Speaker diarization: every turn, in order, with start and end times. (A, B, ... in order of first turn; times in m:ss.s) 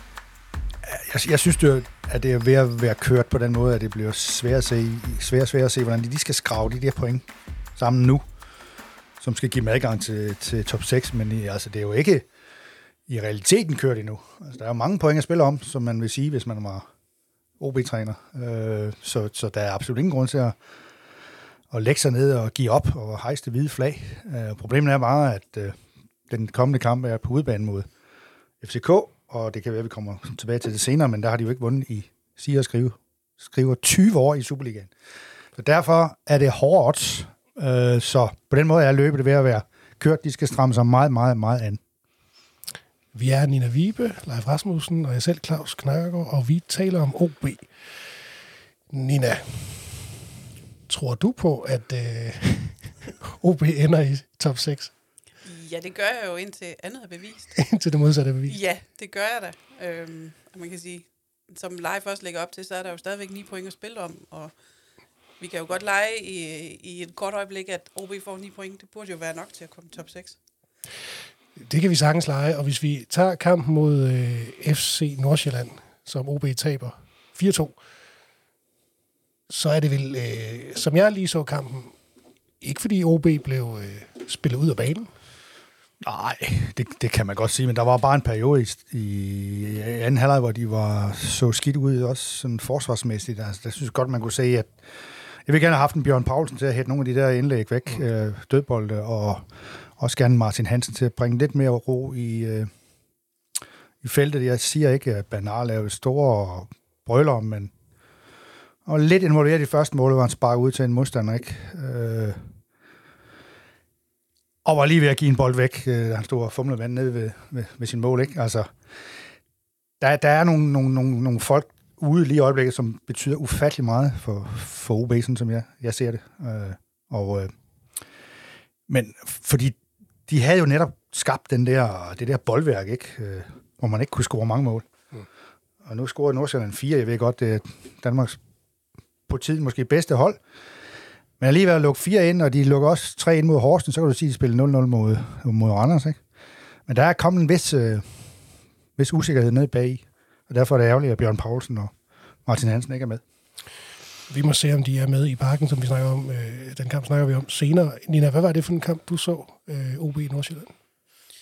0:00.8-0:07.2 A
0:07.8-0:08.2 A
0:09.2-0:12.3 A
0:13.1-0:16.9 A
0:17.6-0:20.6 A
0:21.7-0:25.8 A
0:26.3-0:27.9 A
0:28.6-0:34.9 A
0:35.6-0:41.8 A
0:43.1-0:47.7 B
0:48.9-0:50.2 B
0:50.9-0:54.9 B
0:55.4-0:57.8 C
0:57.6-0:58.6 B
0:58.5-1:04.5 C
1:05.4-1:10.4 C
1:11.6-1:17.8 B
1:19.5-1:22.0 B
1:22.6-1:25.1 B
1:26.0-1:42.7 A
1:44.0-1:47.7 A
1:48.8-1:52.5 A
1:54.6-1:58.7 A
2:00.0-2:07.5 A
2:08.9-2:14.9 A
2:15.8-2:18.4 A
2:19.3-2:20.4 A
2:21.4-2:26.2 A
2:26.9-2:28.4 A
2:29.0-2:31.9 A
2:32.4-2:33.2 A
2:34.3-2:40.8 B